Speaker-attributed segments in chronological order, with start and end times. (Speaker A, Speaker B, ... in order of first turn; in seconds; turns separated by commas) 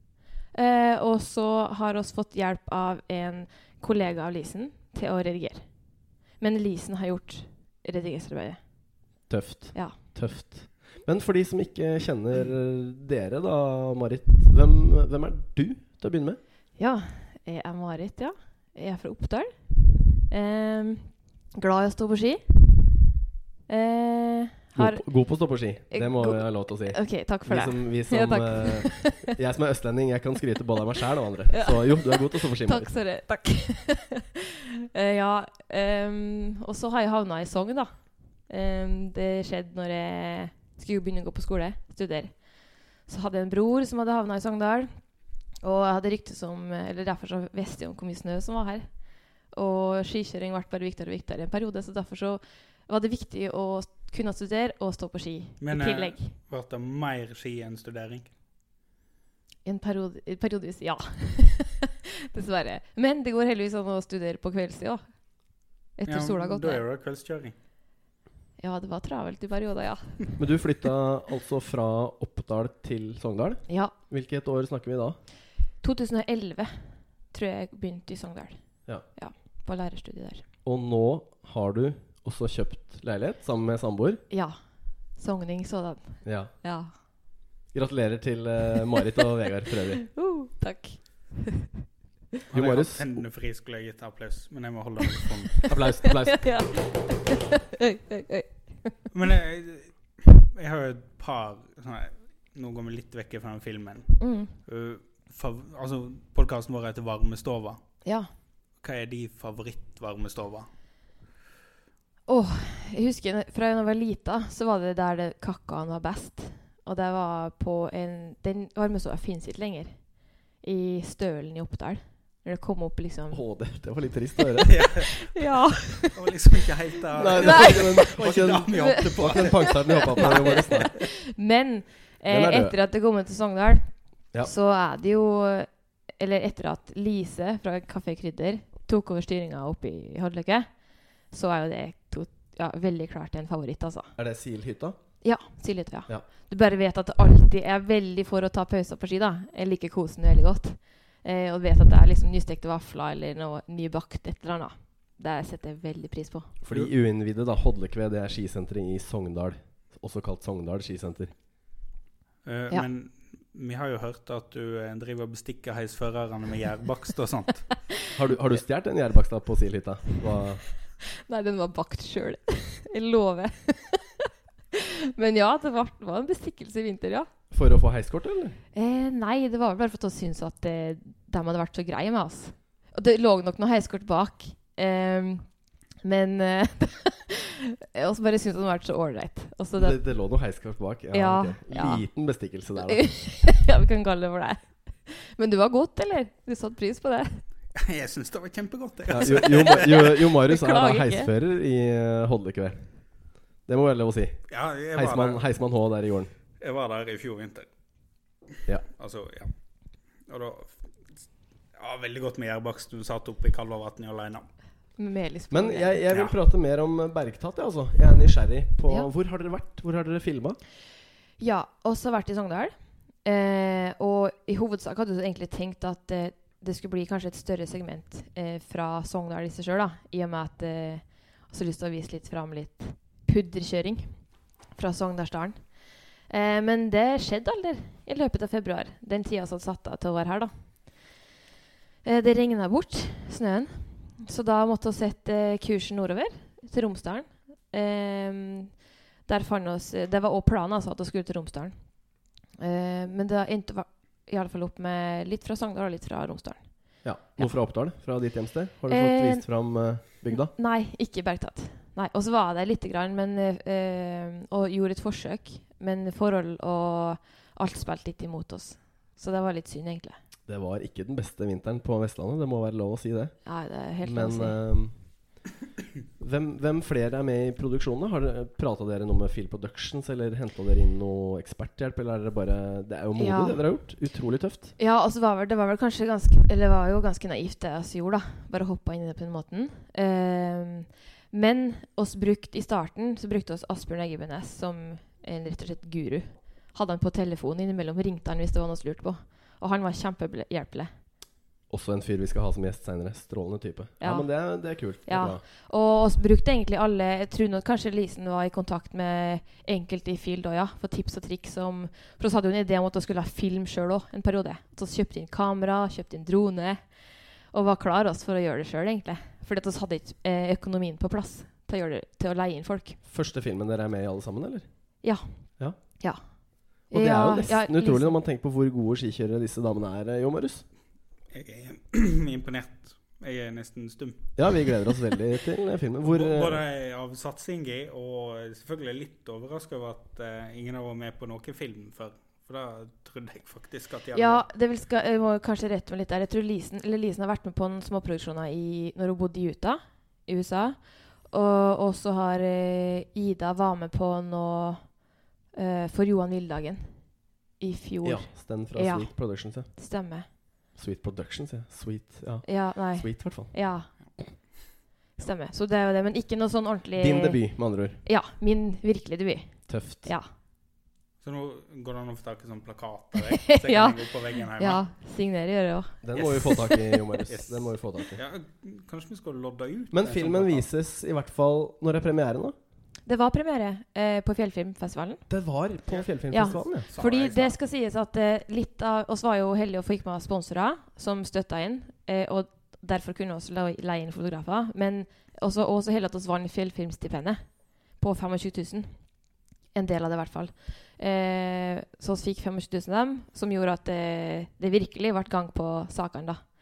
Speaker A: 0.5-5.7, Speaker A: 6.4-8.6, Speaker B: 9.3-16.4, Speaker A: 16.8-19.5, Speaker A: 20.3-22.4, Speaker A: 23.7-25.1, Speaker B: 24.8-32.9, Speaker A: 25.9-29.3, Speaker A: 31.5-56.3, Speaker C: 55.6-58.3, Speaker A: 59.6-65.0, Speaker A: 66.0-66.8, Speaker C: 66.1-67.5, Speaker A: 68.6-70.3, Speaker B: 70.4-75.2, Speaker A: 73.7-73.9, Speaker A: 75.8-76.7, Speaker A: 77.3-78.6, Speaker A: 79.2-80.5, Speaker B: 80.7-84.2, Speaker A: 84.3-84.6, Speaker A: 85.2-86.9, Speaker B: 86.2-86.5, Speaker B: 87.7-90.0, Speaker A: 90.0-91.7, Speaker C: 92.5-95.7, Speaker B: 92.5-93.2, Speaker B: 95.7-96.6, Speaker A: 96.2-99.1, Speaker C: 99.1-107.8, Speaker A: 104.2-104.5, Speaker A: 108.0-108.3, Speaker C: 108.8-110.7, Speaker A: 112.3-120.1, Speaker A: 120.6-123.4, Speaker B: 123.3-124.8, Speaker C: 124.7-125.2, Speaker A: 125.0-126.2, Speaker C: 126.1-130.9, Speaker B: 127.2-130.9, Speaker A: 127.4-128.1, Speaker A: 128.8-140.8, Speaker B: 132.3-132.8, Speaker A: 141.3-144.1, Speaker B: 144.2-145.0, Speaker A: 145.2-156.5, Speaker B: 156.6-161.3, Speaker C: 162.4-167.8, Speaker B: 168.1-170.7, Speaker A: 171.3-177.3, Speaker B: 177.5-178.6, Speaker A: 178.7-185.5, Speaker A: 186.0-190.0, Speaker B: 189.8-193.0, Speaker A: 191.1-192.0, Speaker A: 192.8-197.4, Speaker C: 197.8-200.2, Speaker B: 199.1-202.8, Speaker A: 199.4-201.3, Speaker B: 203.7-206.3, Speaker C: 204.5-205.4, Speaker C: 206.6-207.7, Speaker C: 209.0-209.5, Speaker C: 210.3-210.8, Speaker C: 211.8-214.4, Speaker A: 215.0-216.0, Speaker B: 215.5-220.6, Speaker C: 216.1-216.4, Speaker A: 221.4-234.2, Speaker A: 234.7-235.7, Speaker A: 236.3-240.5, Speaker A: 242.0-248.8, Speaker A: 249.3-251.8, Speaker A: 252.6-256.7, Speaker B: 257.0-260.5, Speaker A: 258.9-259.5, Speaker A: 260.3-270.2, Speaker B: 270.5-273.4, Speaker A: 273.4-274.6, Speaker B: 274.0-274.9, Speaker B: 276.2-284.7, Speaker A: 283.2-283.6, Speaker A: 284.8-300.9, Speaker B: 301.7-305.4, Speaker A: 304.0-304.3, Speaker A: 305.1-316.9, Speaker A: 317.5-323.0, Speaker B: 323.1-324.7, Speaker A: 326.9-328.1, Speaker B: 326.9-330.6, Speaker C: 331.3-334.6, Speaker B: 334.4-336.6, Speaker C: 336.0-344.5, Speaker A: 344.1-355.0, Speaker A: 355.5-356.9, Speaker A: 357.6-359.1, Speaker B: 358.0-359.7, Speaker A: 359.7-360.3, Speaker B: 360.8-363.5, Speaker A: 362.4-363.9, Speaker A: 365.2-367.4, Speaker B: 367.0-368.0, Speaker A: 368.0-370.3, Speaker B: 369.7-370.1, Speaker C: 371.2-374.8, Speaker A: 373.2-377.1, Speaker B: 376.0-378.2, Speaker C: 377.3-380.7, Speaker B: 379.9-382.6, Speaker A: 383.1-385.2, Speaker B: 385.3-386.9, Speaker C: 385.9-387.6, Speaker A: 386.3-398.9, Speaker A: 399.7-406.4